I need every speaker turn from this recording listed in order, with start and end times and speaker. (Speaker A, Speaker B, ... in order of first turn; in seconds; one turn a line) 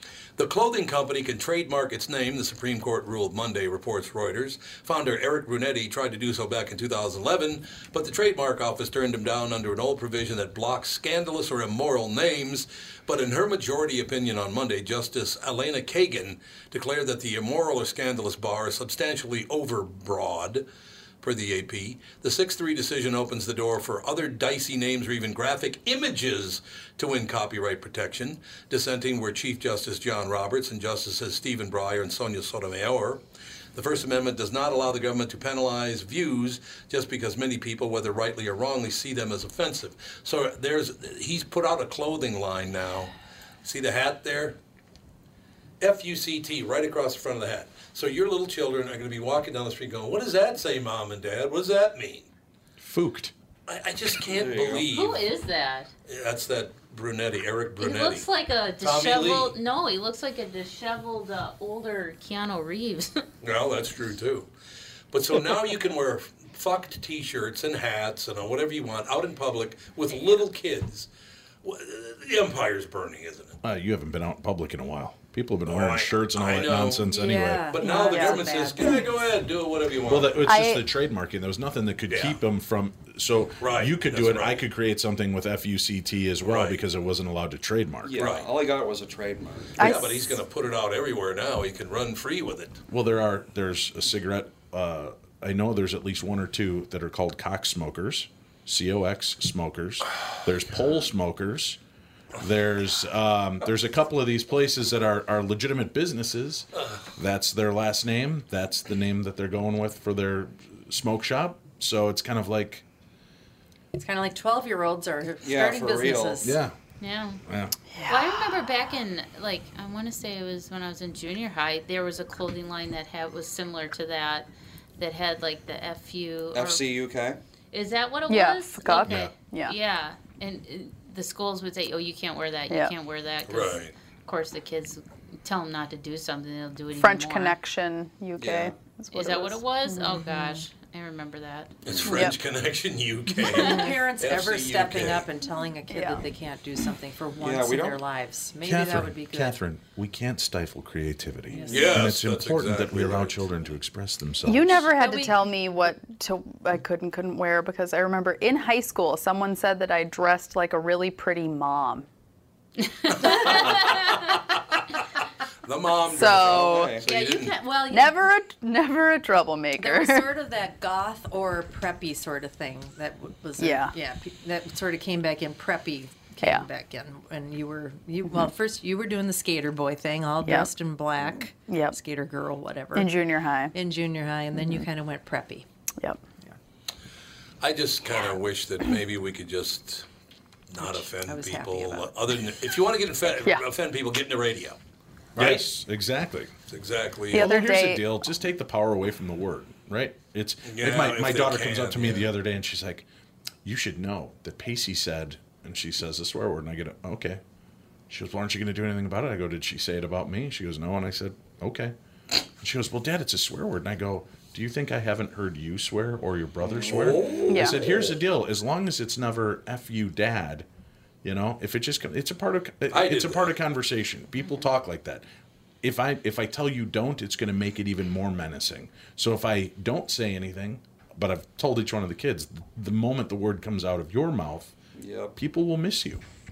Speaker A: 0.4-20.6
Speaker A: 21.2-33.2
Speaker A: 33.8-43.1
Speaker A: 43.6-44.6
Speaker A: 45.8-52.3
Speaker B: 52.8-53.3
Speaker A: 53.7-55.2
Speaker C: 54.2-54.9
Speaker D: 54.8-55.9
Speaker A: 56.1-58.3
Speaker D: 57.8-63.3
Speaker A: 58.8-59.6
Speaker A: 63.4-64.5
Speaker A: 65.1-71.1
Speaker A: 71.6-73.6
Speaker B: 73.6-77.7
Speaker A: 75.7-77.1
Speaker E: 77.1-79.0
Speaker A: 77.7-80.4
Speaker F: 77.8-79.0
Speaker B: 80.1-88.3
Speaker F: 80.5-80.8
Speaker A: 82.1-82.4
Speaker A: 83.6-84.6
Speaker A: 86.4-86.8
Speaker C: 88.0-89.9
Speaker A: 88.2-88.5
Speaker F: 89.8-90.4
Speaker A: 89.8-92.8
Speaker B: 92.9-101.8
Speaker B: 102.4-112.8
Speaker E: 113.9-116.6
Speaker C: 115.4-116.5
Speaker B: 116.4-116.8
Speaker D: 117.0-117.4
Speaker B: 117.5-117.7
Speaker F: 117.9-118.7
Speaker D: 118.1-126.9
Speaker C: 126.5-127.4
Speaker D: 127.7-137.6
Speaker F: 128.3-129.8
Speaker B: 129.0-129.3
Speaker F: 132.7-132.9
Speaker A: 133.4-133.9
Speaker F: 137.0-140.2
Speaker C: 138.4-138.8
Speaker D: 139.1-141.8
Speaker E: 140.3-140.6
Speaker A: 141.8-145.2
Speaker C: 141.9-142.2
Speaker F: 142.1-142.4
Speaker E: 143.5-149.6
Speaker F: 145.9-146.2
Speaker C: 147.4-148.0
Speaker B: 148.6-154.9
Speaker E: 151.5-152.0
Speaker A: 151.7-153.5
Speaker F: 154.5-162.1
Speaker E: 154.9-155.4
Speaker D: 163.1-164.1
Speaker A: 163.2-164.3
Speaker A: 165.7-167.6
Speaker F: 166.1-167.0
Speaker C: 166.3-167.1
Speaker D: 167.1-168.1
Speaker F: 167.9-170.3
Speaker E: 169.8-183.1
Speaker F: 173.6-173.9
Speaker F: 176.4-176.7
Speaker F: 180.4-180.7
Speaker F: 181.6-182.0
Speaker F: 182.9-183.7
Speaker E: 183.7-185.7
Speaker F: 184.6-184.8
Speaker A: 187.6-190.1
Speaker A: 190.7-194.8
Speaker E: 190.8-192.1
Speaker A: 195.4-195.7
Speaker B: 195.4-196.5
Speaker A: 196.7-197.5
Speaker F: 197.3-198.2
Speaker B: 197.3-203.1
Speaker A: 200.7-202.3
Speaker B: 203.6-207.4
Speaker B: 208.1-211.9
Speaker B: 212.6-220.7
Speaker C: 216.7-218.0
Speaker A: 216.9-217.9
Speaker F: 217.5-217.8
Speaker B: 221.2-225.3
Speaker A: 222.9-223.6
Speaker B: 225.8-234.8
Speaker C: 235.0-235.4
Speaker B: 235.4-236.2